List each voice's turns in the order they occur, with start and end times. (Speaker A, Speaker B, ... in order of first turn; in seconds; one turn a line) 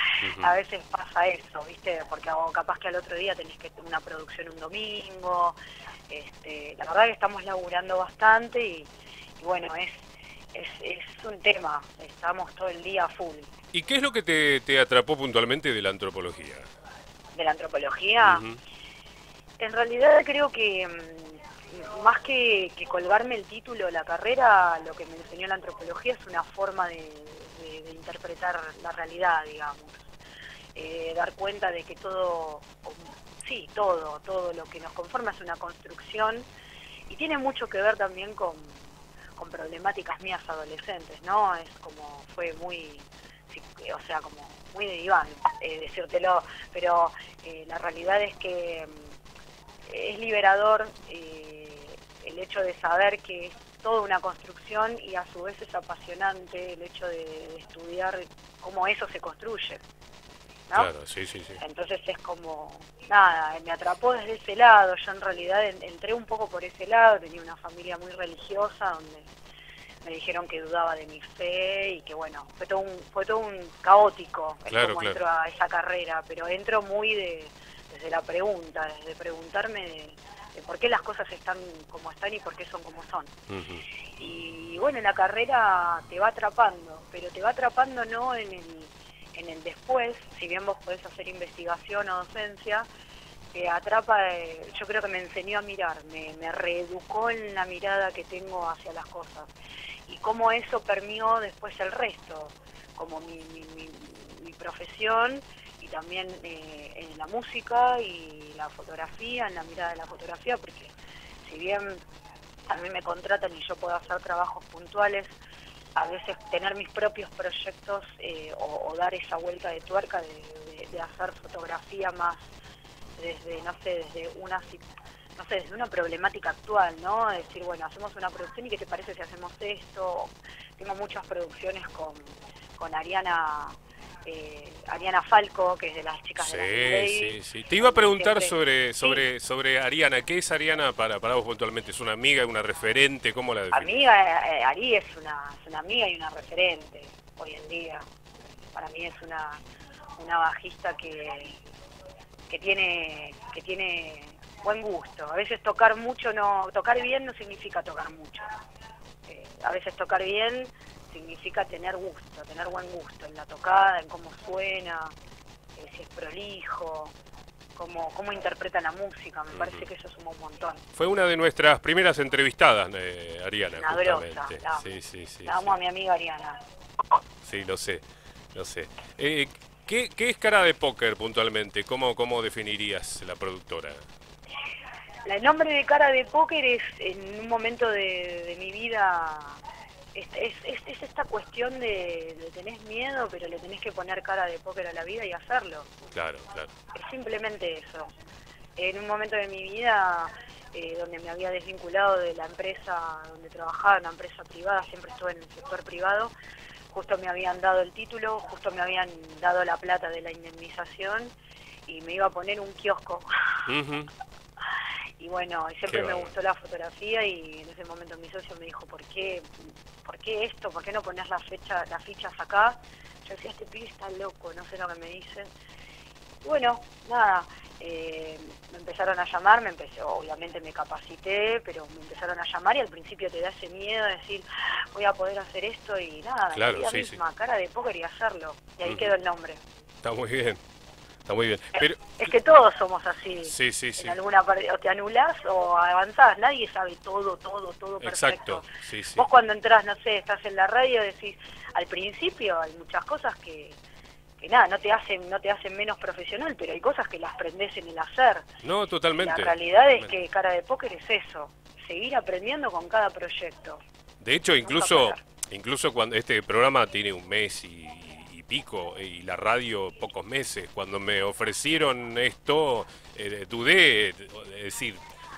Speaker A: 0.2-5.5
Speaker B: 0.2-0.5
Speaker A: 6.1-8.9
Speaker A: 9.4-13.5
Speaker B: 13.7-16.7
Speaker A: 17.3-18.4
Speaker B: 18.2-18.6
Speaker A: 19.6-30.1
Speaker A: 30.7-36.5
Speaker A: 37.1-38.8
Speaker A: 39.4-49.1
Speaker A: 49.9-59.8
Speaker B: 60.8-61.6
Speaker A: 61.6-69.3
Speaker A: 70.0-83.3
Speaker B: 74.7-75.2
Speaker B: 83.5-83.8
Speaker A: 84.2-92.9
Speaker A: 93.5-99.5
Speaker A: 100.1-110.9
Speaker A: 111.4-112.0
Speaker A: 112.7-115.3
Speaker A: 115.9-122.4
Speaker A: 123.2-124.8
Speaker A: 125.3-139.2
Speaker B: 136.4-143.9
Speaker A: 143.7-148.1
Speaker A: 148.7-149.6
Speaker A: 150.2-151.6
Speaker A: 152.5-158.4
Speaker A: 159.3-165.1
Speaker A: 165.8-167.1
Speaker A: 167.8-170.8
Speaker B: 169.5-169.8
Speaker B: 170.9-175.7
Speaker A: 173.8-174.8
Speaker A: 175.4-176.6
Speaker B: 177.4-184.0
Speaker A: 185.2-189.6
Speaker A: 190.1-196.0
Speaker B: 196.1-196.7
Speaker A: 196.9-198.1
Speaker A: 198.8-206.3
Speaker A: 206.9-211.3
Speaker A: 211.9-213.3
Speaker B: 213.7-214.1
Speaker A: 215.2-225.5
Speaker B: 215.9-216.3
Speaker A: 226.4-239.6
Speaker B: 236.5-237.2
Speaker B: 238.8-239.1
Speaker B: 240.0-240.6
Speaker B: 241.2-242.3
Speaker A: 242.2-253.8
Speaker B: 243.5-244.2
Speaker B: 248.0-249.2
Speaker A: 254.4-258.5
Speaker B: 258.6-260.1
Speaker A: 259.2-263.8
Speaker B: 264.2-275.0
Speaker A: 264.6-265.2